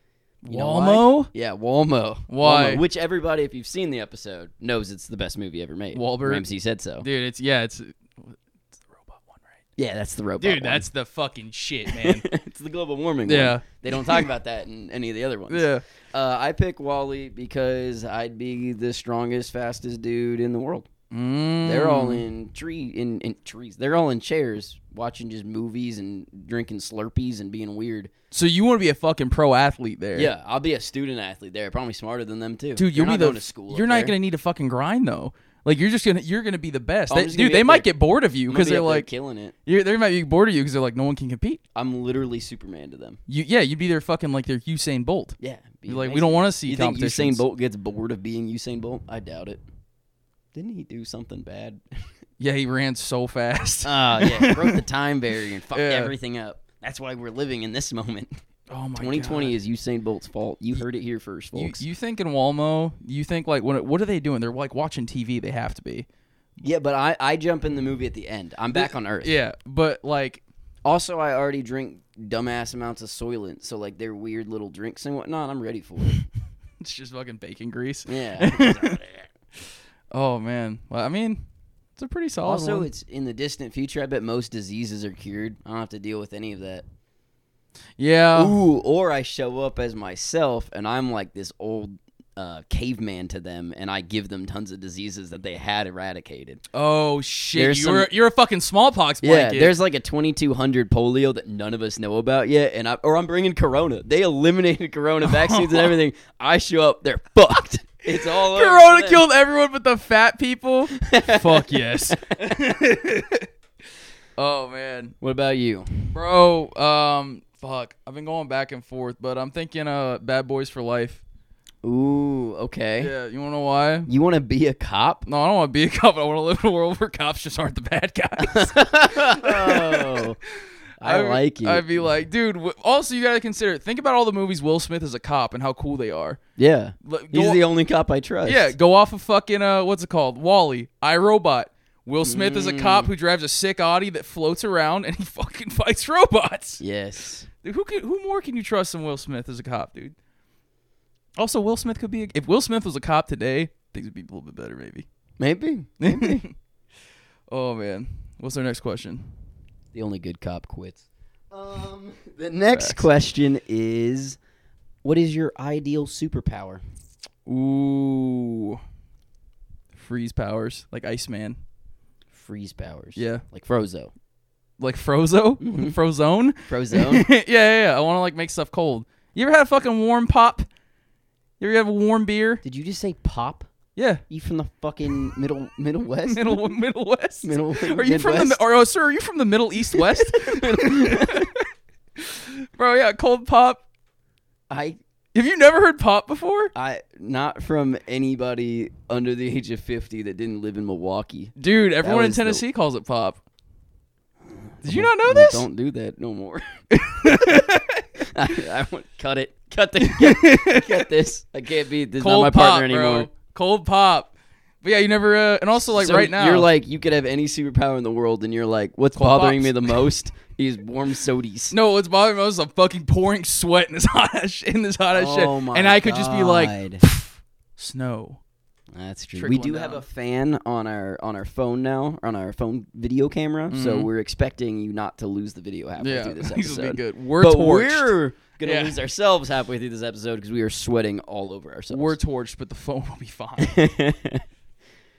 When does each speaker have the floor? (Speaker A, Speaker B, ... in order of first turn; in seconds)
Speaker A: 0.4-1.3, 2.3-2.8, 5.9-6.5, 7.0-9.6, 10.4-12.3, 13.3-14.2, 15.5-15.8, 21.1-22.3, 28.3-30.3, 32.8-39.1, 39.7-41.6, 43.3-47.4, 52.4-54.8, 55.7-56.1, 58.7-59.5, 61.5-66.1, 68.7-70.4, 76.8-79.0, 80.1-82.9, 88.0-88.6, 96.7-99.7, 105.2-106.0, 108.1-113.5, 114.4-115.2, 116.1-121.2, 123.0-124.1, 125.3-130.3, 131.0-136.4, 137.0-137.6, 138.4-146.8, 147.6-150.2, 151.4-155.1, 156.0-156.5, 157.5-159.3, 162.7-163.1, 167.5-168.8, 169.9-171.6, 173.2-173.4, 174.8-180.7, 181.6-182.6, 184.0-184.2, 186.3-191.6, 192.2-193.8, 195.3-196.7, 201.6-203.4, 204.8-205.7, 206.9-208.1, 210.0-211.1, 212.2-216.7, 219.2-219.9, 221.7-228.4, 229.3-230.0, 233.7-234.1, 236.0-239.0, 241.9-243.8
Speaker B: 0.5-7.1, 9.8-10.9, 11.9-20.9, 21.6-28.1, 30.1-34.1, 37.1-37.9, 38.5-39.5, 41.8-43.2, 45.4-49.6, 50.5-52.1, 53.8-58.3, 59.0-61.8, 66.6-69.3, 70.8-76.2, 78.1-79.3, 82.4-86.9, 88.3-96.6, 97.5-98.1, 99.2-109.2, 111.0-112.6, 115.2-116.1, 121.8-123.1, 124.1-125.2, 128.4-130.4, 131.0-132.1, 136.6-138.7, 142.2-143.1, 146.8-147.5, 155.4-156.5, 159.9-164.4, 165.0-166.8, 172.3-174.1, 175.6-175.9, 176.7-177.3, 182.6-183.7, 184.3-186.7, 187.4-188.6, 189.9-191.5, 194.7-195.0, 196.8-202.6, 204.8-206.6, 207.2-207.6, 208.2-213.3, 215.9-221.8, 225.1-227.0, 228.9-242.2, 243.6-244.4